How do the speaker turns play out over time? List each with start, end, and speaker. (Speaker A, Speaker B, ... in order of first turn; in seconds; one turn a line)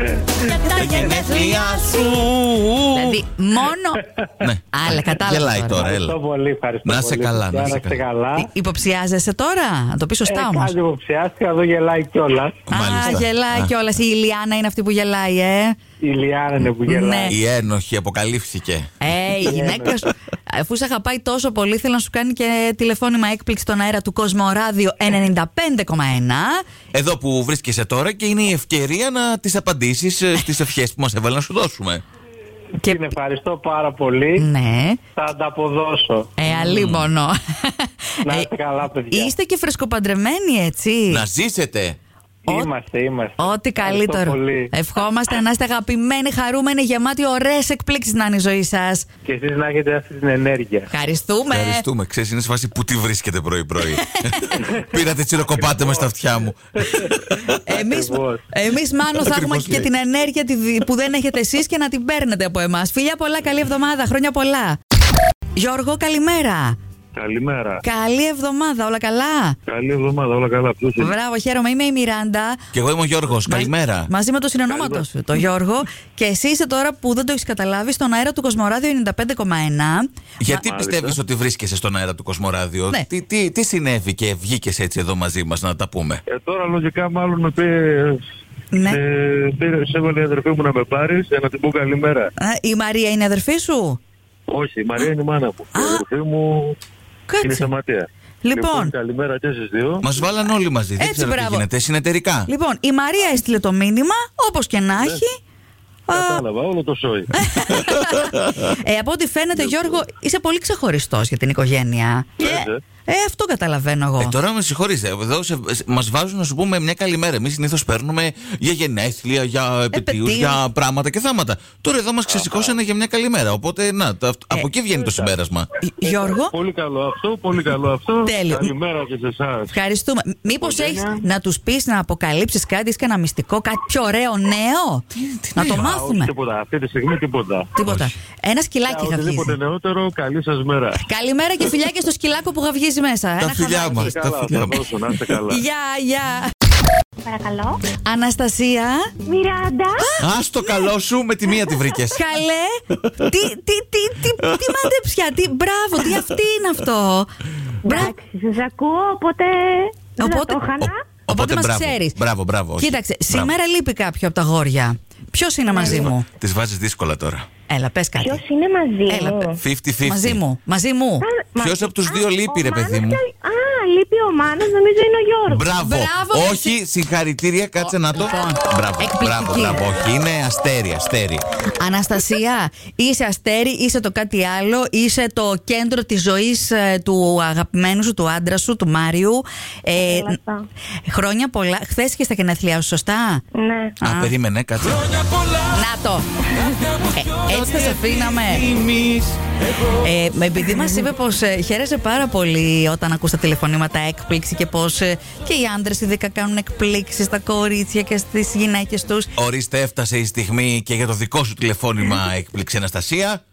Speaker A: 0.3-2.1
Speaker B: 0.7-3.2
Speaker A: 2.9-4.0
Speaker B: 4.4-6.2
Speaker A: 4.7-5.9
Speaker C: 5.8-8.5
Speaker B: 6.8-8.0
Speaker A: 8.3-10.7
Speaker C: 10.2-12.6
Speaker B: 12.7-13.7
Speaker A: 12.7-15.8
Speaker C: 16.0-17.4
Speaker A: 16.9-17.4
Speaker B: 17.3-18.9
Speaker A: 19.0-26.6
Speaker C: 19.4-20.0
Speaker B: 26.9-32.0
Speaker A: 32.8-33.1
Speaker C: 32.8-34.5
Speaker A: 34.4-35.0
Speaker C: 35.1-36.5
Speaker A: 36.4-38.5
Speaker B: 36.6-37.1
Speaker C: 38.2-39.3
Speaker A: 39.1-41.2
Speaker B: 41.1-42.0
Speaker C: 42.5-44.7
Speaker A: 43.4-49.0
Speaker C: 49.2-50.9
Speaker A: 50.9-51.9
Speaker B: 51.5-57.6
Speaker A: 53.9-54.6
Speaker A: 57.6-64.8
Speaker C: 57.7-58.4
Speaker B: 59.1-59.9
Speaker A: 65.5-66.8
Speaker D: 67.1-67.8
Speaker A: 67.8-69.6
Speaker D: 69.7-71.2
Speaker A: 71.0-72.6
Speaker B: 72.7-74.1
Speaker A: 73.4-80.1
Speaker D: 74.7-75.0
Speaker B: 80.4-86.2
Speaker D: 80.5-81.2
Speaker D: 86.3-88.2
Speaker A: 88.7-89.0
Speaker D: 88.8-92.3
Speaker A: 92.4-94.0
Speaker D: 94.5-96.8
Speaker A: 95.7-96.0
Speaker A: 97.3-97.7
Speaker D: 97.4-100.0
Speaker A: 98.4-98.9
Speaker B: 100.0-102.5
Speaker A: 101.0-101.7
Speaker A: 102.5-105.3
Speaker D: 105.0-105.2
Speaker A: 106.1-106.4
Speaker D: 106.1-107.8
Speaker A: 107.3-114.4
Speaker B: 108.1-108.6
Speaker D: 112.4-112.8
Speaker B: 114.2-125.7
Speaker A: 119.9-120.6
Speaker D: 122.3-122.7
Speaker D: 124.9-125.3
Speaker A: 125.8-126.5
Speaker D: 126.0-129.7
Speaker A: 128.2-128.7
Speaker A: 129.7-136.3
Speaker D: 130.6-131.2
Speaker B: 135.4-136.0
Speaker D: 136.1-137.7
Speaker A: 137.7-139.6
Speaker B: 137.8-138.1
Speaker D: 138.9-141.0
Speaker A: 141.0-144.1
Speaker B: 143.4-145.1
Speaker D: 143.9-145.6
Speaker A: 145.5-146.5
Speaker E: 147.2-147.8
Speaker A: 148.0-149.1
Speaker E: 149.3-150.1
Speaker A: 150.0-150.9
Speaker B: 150.2-152.2
Speaker A: 152.1-157.3
Speaker B: 152.9-153.3
Speaker B: 154.4-154.9
Speaker E: 157.8-161.0
Speaker A: 157.8-158.1
Speaker A: 160.2-160.6
Speaker B: 160.8-163.5
Speaker A: 161.3-162.2
Speaker A: 162.8-166.3
Speaker E: 165.7-166.1
Speaker B: 166.0-167.4
Speaker A: 167.7-168.4
Speaker E: 168.2-169.6
Speaker A: 169.1-169.5
Speaker B: 169.6-170.4
Speaker A: 170.0-171.2
Speaker E: 171.2-175.7
Speaker B: 171.6-173.2
Speaker B: 175.5-181.4
Speaker A: 175.8-176.8
Speaker A: 177.8-179.8
Speaker A: 181.8-190.4
Speaker E: 189.9-190.7
Speaker A: 191.1-193.4
Speaker E: 193.6-193.9
Speaker B: 194.0-195.6
Speaker A: 194.0-194.3
Speaker A: 195.7-196.2
Speaker A: 197.1-198.6
Speaker B: 197.4-199.4
Speaker A: 199.9-209.3
Speaker B: 209.3-213.4